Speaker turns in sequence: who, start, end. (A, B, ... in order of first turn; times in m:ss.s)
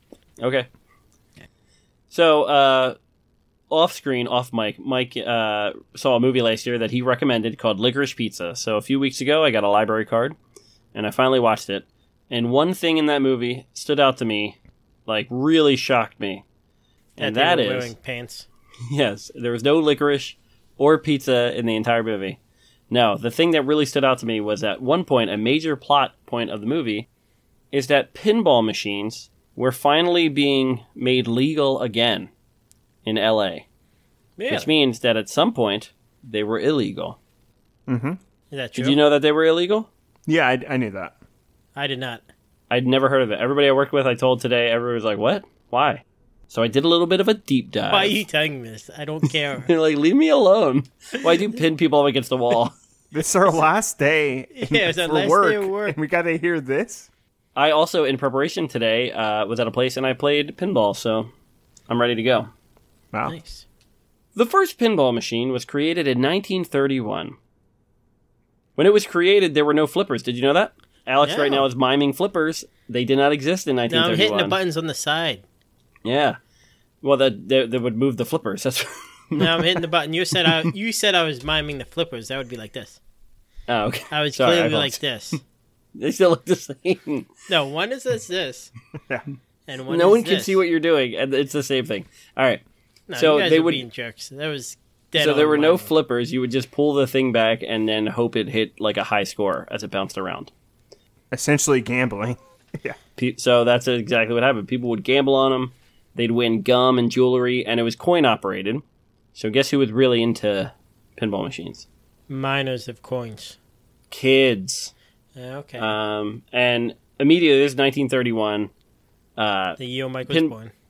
0:00.4-0:00.7 A
0:02.1-0:03.0 A
0:03.7-0:10.4 A
0:10.9-0:16.4 A
0:17.2-0:17.9 A
0:17.2-0:18.5 B
0:18.9-0:22.4 A
0:22.9-0:27.1 A
0:27.7-0:32.3 A
0:33.0-0:33.7 A
0:34.4-0:34.7 B
0:34.5-0:37.2 A
0:37.9-0:38.2 C
0:38.5-0:39.0 B
0:38.8-0:39.9 A
0:40.3-0:41.1 C
0:41.8-0:42.2 B
0:42.7-0:48.2 A
0:47.9-0:49.7 B
0:49.6-0:52.7 A
0:53.1-0:57.1 C
0:54.5-0:56.0 B
0:57.6-1:01.3 A
1:01.9-1:02.5 A
1:03.3-1:03.6 B
1:04.4-1:07.4 A
1:08.8-1:14.6 A
1:11.2-1:11.7 B
1:13.9-1:15.4 B
1:16.0-1:16.4 A
1:17.0-1:19.8 A
1:19.4-1:23.0 B
1:23.7-1:25.0 A
1:24.1-1:25.4 B
1:26.0-1:27.3 A
1:27.5-1:28.7 B
1:29.7-1:30.6 B
1:29.9-1:32.6 A
1:33.1-1:35.9 B
1:33.2-1:33.8 A
1:35.2-1:40.5 A
1:41.3-1:43.0 C
1:43.2-1:48.8 A
1:49.4-1:51.9 A
1:52.3-1:53.6 B
1:54.1-1:54.9 A
1:55.4-1:55.9 B
1:55.8-1:58.7 A
1:59.4-2:00.5 A
1:59.8-2:00.7 B